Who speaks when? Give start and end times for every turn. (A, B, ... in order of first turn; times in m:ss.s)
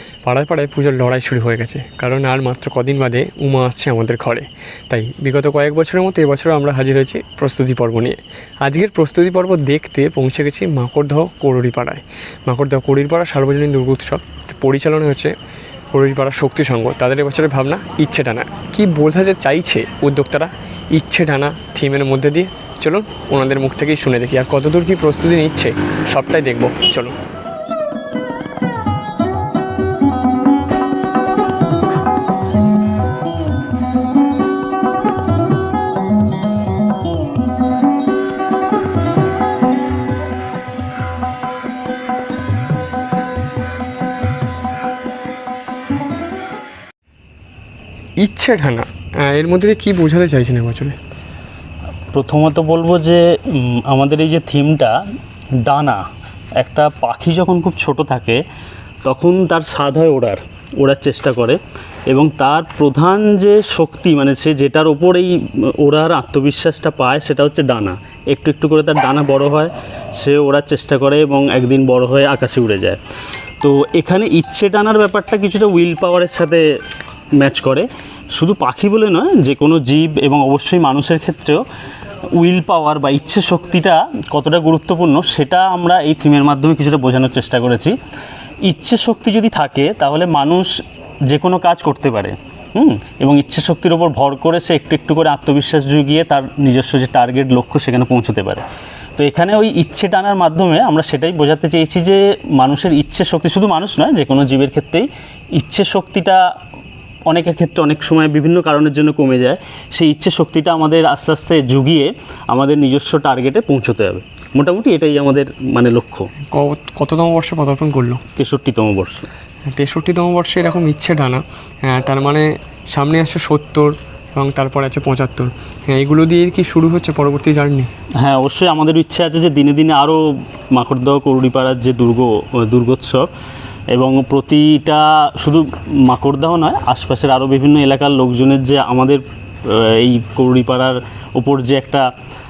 0:00.2-0:15.3 A
0:15.9-0:27.2 A
0:48.2-0:51.0 A
0:52.1-0:54.9 B
0:55.6-0:56.0 B
0:56.6-0:58.4 B
0:59.0-1:01.6 B
1:02.1-1:13.0 B
1:13.6-1:16.6 B
1:17.4-1:21.6 B
1:22.4-1:28.0 B
1:28.7-1:30.7 B
1:31.3-1:38.6 B
1:39.2-1:46.4 B
1:47.3-1:56.3 B
1:56.5-1:58.2 A
1:58.4-1:59.3 B
1:59.7-2:07.9 A
2:08.2-2:13.3 B
2:13.9-2:22.1 B